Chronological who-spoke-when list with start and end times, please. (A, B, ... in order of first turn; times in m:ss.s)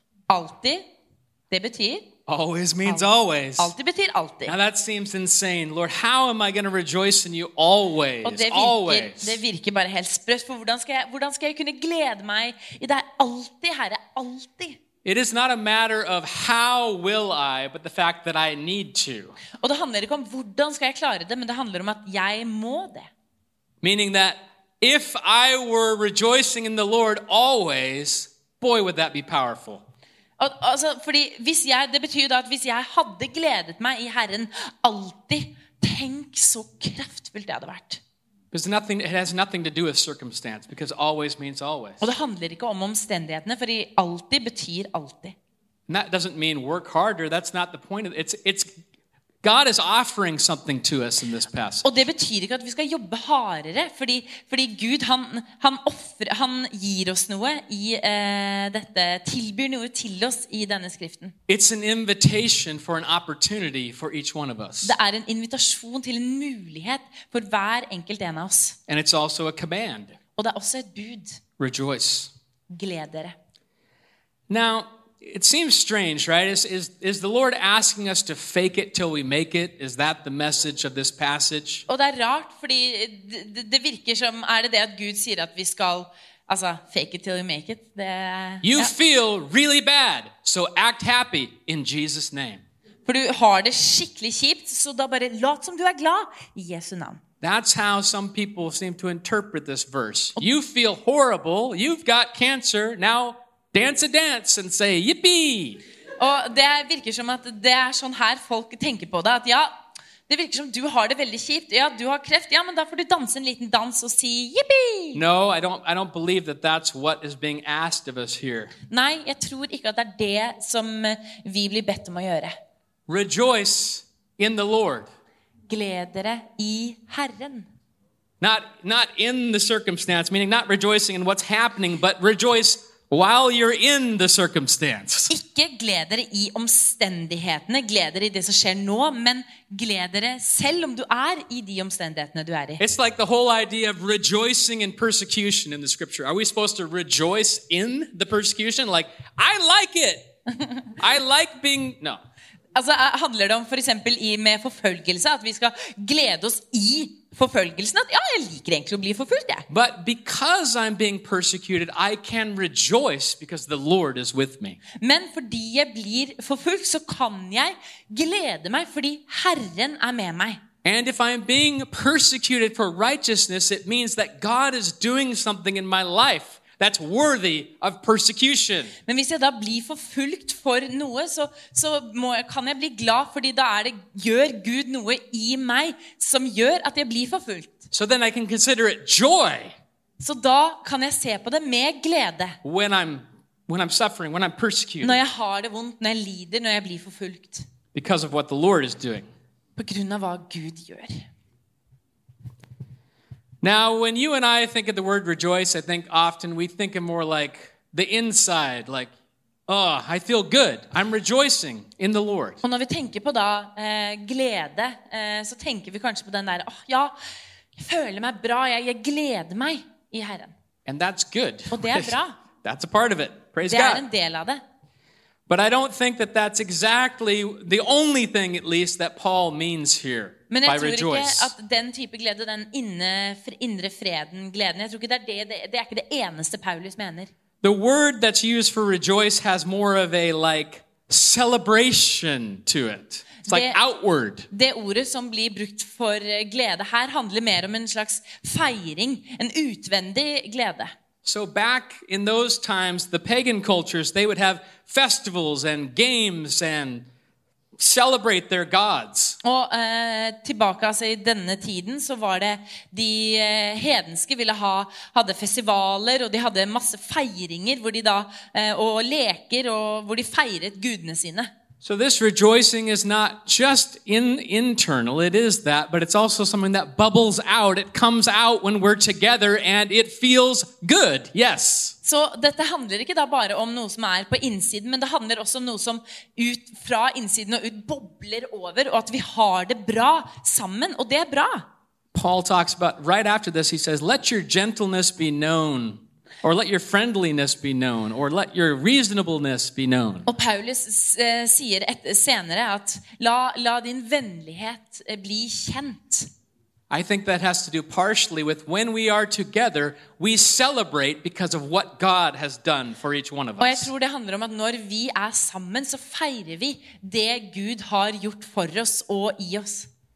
0:00.3-0:00.8 A
0:01.5-0:02.1 A
0:02.3-0:03.7 B
0:02.9-0:04.6 A
0:04.5-0:09.4 B
0:08.2-0:14.8 A
0:15.0-0:19.4 B
0:19.6-0:23.1 A
0:23.8-0:29.8 B
0:30.4-0:38.0 A
0:38.5-0:42.0 B
0:42.0-0:45.4 A
0:45.9-0:48.7 B
0:49.4-0:51.9 B
0:51.8-1:01.3 A
1:01.5-1:05.0 B
1:04.8-1:08.8 A
1:08.9-1:10.2 B
1:10.4-1:11.4 A
1:11.6-1:12.3 B
1:12.7-1:13.4 A
1:14.5-1:21.9 B
1:21.9-1:28.9 A
1:28.6-1:32.6 B
1:33.1-1:37.2 A
1:37.4-1:45.8 B
1:46.2-1:49.7 A
1:50.3-1:55.2 A
1:55.1-1:58.7 B
1:58.9-2:02.5 A
2:03.1-2:05.1 B
2:05.7-2:07.7 A
2:08.4-2:15.3 B
2:15.3-2:22.8 A
2:22.8-2:30.2 B
2:31.0-2:32.2 B
2:32.8-2:39.7 A
2:39.7-2:44.8 B
2:45.0-2:50.6 A
2:50.8-2:58.9 B
2:59.1-3:07.9 A
3:07.9-3:09.8 B
3:10.2-3:12.6 A
3:12.6-3:15.2 B
3:15.0-3:17.6 A
3:17.9-3:19.3 B
3:19.8-3:21.2 A
3:23.6-3:29.1 B
3:29.7-3:32.6 B
3:32.6-3:37.1 A
3:37.8-3:40.5 A
3:40.9-3:44.0 B
3:41.7-3:42.4 A
3:43.6-3:44.6 A
3:45.5-3:51.5 B
3:50.5-3:57.3 A
3:57.6-4:04.5 B
4:03.4-4:03.8 A
4:04.5-4:10.9 A
4:11.2-4:17.1 B
4:17.8-4:19.4 B
4:19.4-4:31.5 A
4:31.8-4:41.9 B
4:42.0-4:51.6 A
4:52.1-5:00.3 B
5:00.3-5:06.3 A
5:06.9-5:13.9 B
5:13.6-5:19.9 A